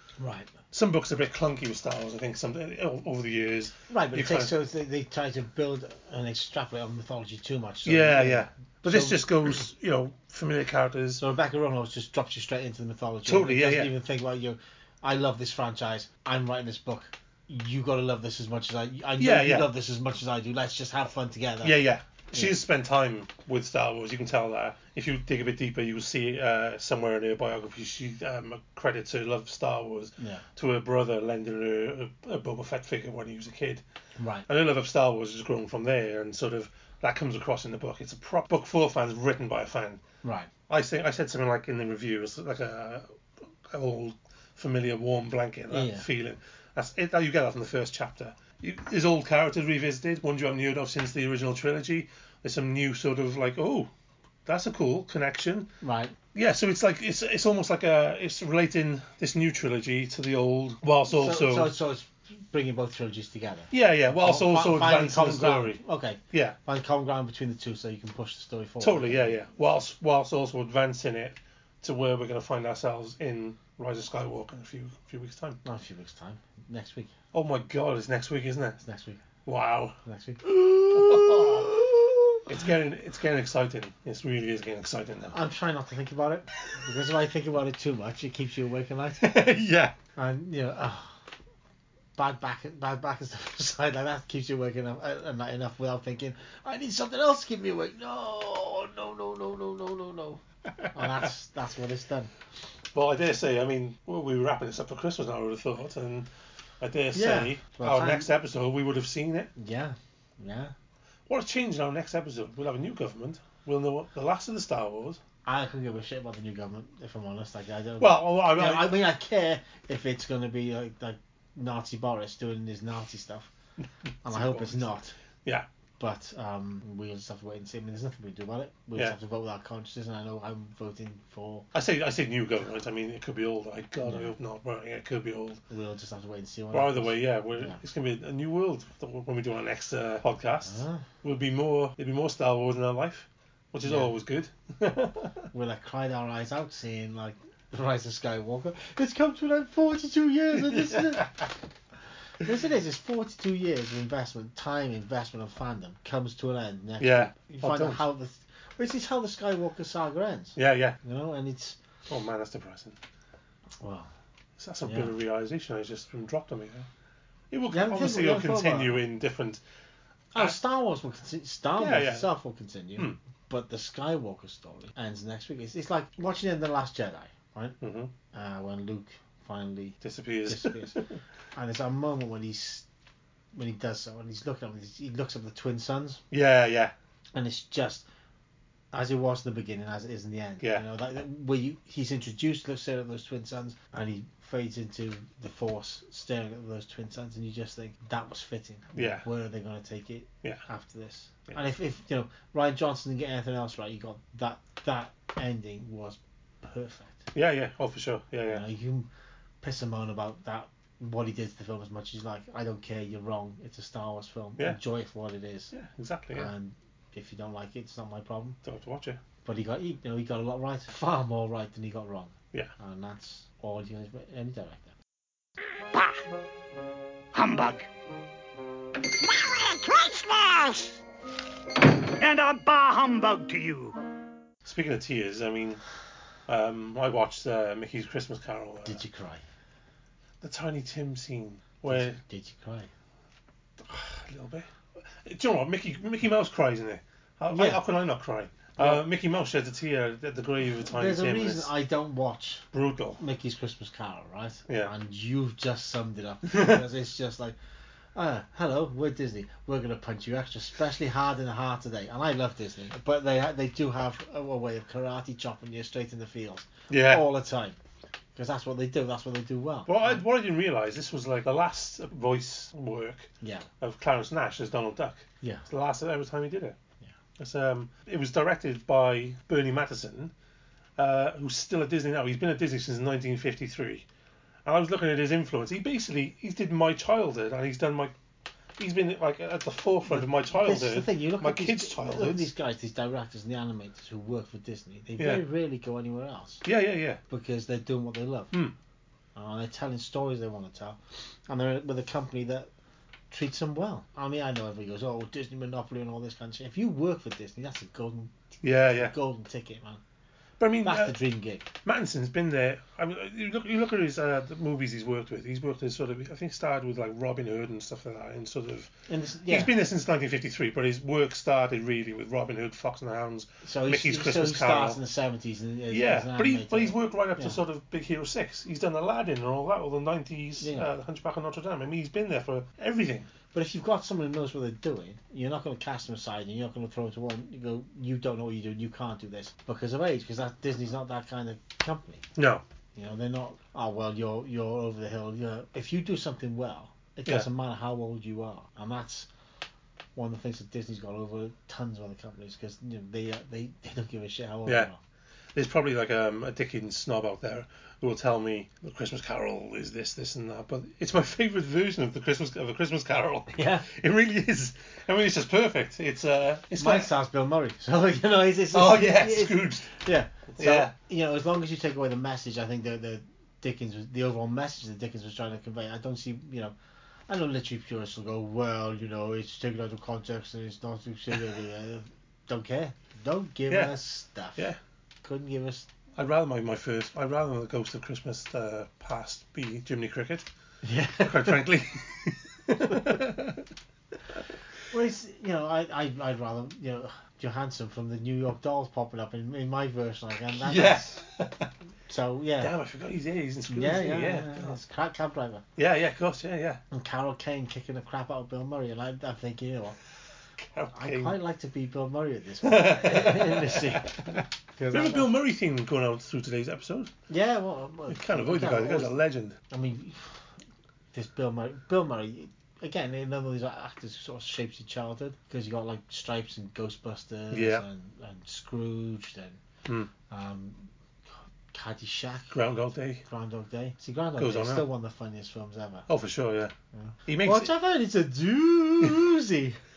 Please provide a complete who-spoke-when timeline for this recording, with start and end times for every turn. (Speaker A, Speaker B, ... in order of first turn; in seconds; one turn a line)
Speaker A: 0.2-0.5
Speaker B: 0.7-4.5
Speaker A: 3.9-9.6
Speaker B: 7.8-11.2
Speaker A: 11.2-21.8
Speaker B: 13.3-13.9
Speaker B: 19.2-19.7
Speaker B: 21.6-33.8
Speaker A: 22.3-22.6
Speaker A: 30.2-30.4
Speaker A: 34.2-34.5
Speaker B: 34.5-40.0
Speaker A: 40.2-40.5
Speaker B: 40.7-53.9
Speaker A: 45.7-46.0
Speaker B: 54.5-55.7
Speaker A: 55.8-56.1
Speaker B: 56.3-61.7
Speaker A: 61.1-69.4
Speaker B: 63.7-65.8
Speaker B: 66.3-66.6
Speaker B: 68.8-75.6
Speaker A: 75.6-77.1
Speaker B: 77.3-78.8
Speaker A: 78.8-79.2
Speaker B: 79.5-81.8
Speaker A: 80.0-81.8
Speaker B: 82.5-85.4
Speaker A: 85.3-89.5
Speaker B: 89.2-90.0
Speaker A: 90.2-91.2
Speaker A: 92.2-102.3
Speaker B: 101.0-101.2
Speaker B: 102.9-109.5
Speaker A: 107.1-108.3
Speaker A: 109.6-110.7
Speaker B: 111.3-115.2
Speaker A: 115.4-123.5
Speaker B: 118.0-119.0
Speaker B: 123.8-125.7
Speaker A: 124.2-125.1
Speaker A: 126.0-131.7
Speaker B: 131.7-135.6
Speaker A: 134.0-134.3
Speaker A: 135.7-137.8
Speaker B: 136.7-145.4
Speaker A: 140.6-141.0
Speaker A: 143.8-144.1
Speaker A: 145.5-151.5
Speaker B: 150.5-151.5
Speaker A: 152.4-161.8
Speaker B: 157.0-158.1
Speaker B: 160.6-161.0
Speaker B: 162.1-162.9
Speaker A: 163.8-164.1
Speaker B: 164.6-166.9
Speaker A: 164.8-165.1
Speaker B: 167.5-169.6
Speaker A: 167.7-169.0
Speaker A: 170.3-177.8
Speaker B: 171.8-172.3
Speaker B: 177.8-178.1
Speaker A: 178.3-181.0
Speaker B: 180.0-181.2
Speaker A: 181.5-182.9
Speaker A: 183.5-186.2
Speaker B: 186.3-186.9
Speaker A: 187.3-188.1
Speaker A: 188.9-207.3
Speaker B: 190.6-190.8
Speaker B: 198.9-199.3
Speaker B: 207.3-208.6
Speaker A: 208.5-209.1
Speaker A: 209.6-215.7
Speaker B: 215.7-216.5
Speaker A: 216.3-218.6
Speaker B: 218.6-219.2
Speaker A: 219.4-224.9
Speaker C: 227.3-227.9
Speaker C: 229.3-230.9
Speaker C: 232.2-233.9
Speaker B: 234.6-235.8
Speaker B: 236.5-239.0
Speaker A: 238.8-239.4
Speaker B: 240.4-242.2
Speaker A: 241.9-242.9
Speaker B: 243.8-251.7
Speaker A: 247.5-247.8
Speaker A: 248.8-249.0
Speaker A: 250.9-252.6
Speaker B: 252.7-253.2
Speaker A: 253.2-257.6
Speaker B: 256.5-256.8
Speaker A: 258.1-267.8
Speaker B: 266.9-267.3
Speaker A: 268.4-270.2
Speaker B: 269.9-273.3
Speaker A: 273.4-273.7
Speaker B: 273.8-276.8
Speaker A: 275.4-275.7
Speaker B: 277.4-280.3
Speaker B: 281.0-284.1
Speaker B: 284.6-288.1
Speaker B: 288.8-292.5
Speaker A: 290.1-296.6
Speaker B: 295.2-295.4
Speaker B: 296.6-297.2
Speaker A: 297.3-298.5
Speaker A: 299.4-302.7
Speaker A: 303.3-310.0
Speaker B: 308.6-309.1
Speaker B: 310.6-311.2
Speaker A: 310.8-311.6
Speaker B: 311.8-318.9
Speaker A: 319.1-319.7
Speaker B: 319.5-325.0
Speaker A: 323.6-327.6
Speaker B: 325.9-333.3
Speaker A: 330.6-330.9
Speaker A: 333.5-342.2
Speaker B: 342.4-342.6
Speaker A: 342.9-349.3
Speaker A: 350.1-355.0
Speaker B: 355.5-367.1
Speaker A: 363.5-363.9
Speaker A: 366.8-376.8
Speaker B: 368.7-369.9
Speaker B: 370.5-370.9
Speaker A: 377.3-384.7
Speaker B: 383.7-384.0
Speaker A: 385.2-385.9
Speaker B: 386.1-390.4
Speaker A: 390.8-391.6
Speaker B: 391.2-393.7
Speaker A: 394.9-401.2
Speaker B: 400.5-401.7
Speaker A: 402.1-402.7
Speaker B: 402.6-404.8
Speaker A: 403.7-405.6
Speaker B: 405.8-406.8
Speaker A: 406.9-410.0
Speaker B: 410.7-411.4
Speaker A: 410.9-415.3
Speaker B: 412.6-417.1
Speaker A: 417.3-419.1
Speaker B: 418.1-419.6
Speaker A: 419.7-420.5
Speaker A: 421.1-429.6
Speaker B: 427.5-427.9
Speaker B: 429.9-430.1
Speaker A: 430.3-430.9
Speaker A: 431.7-432.5
Speaker B: 432.5-433.2
Speaker A: 433.3-436.1
Speaker B: 434.4-434.9
Speaker B: 436.1-436.7
Speaker A: 436.9-439.8
Speaker B: 437.2-437.7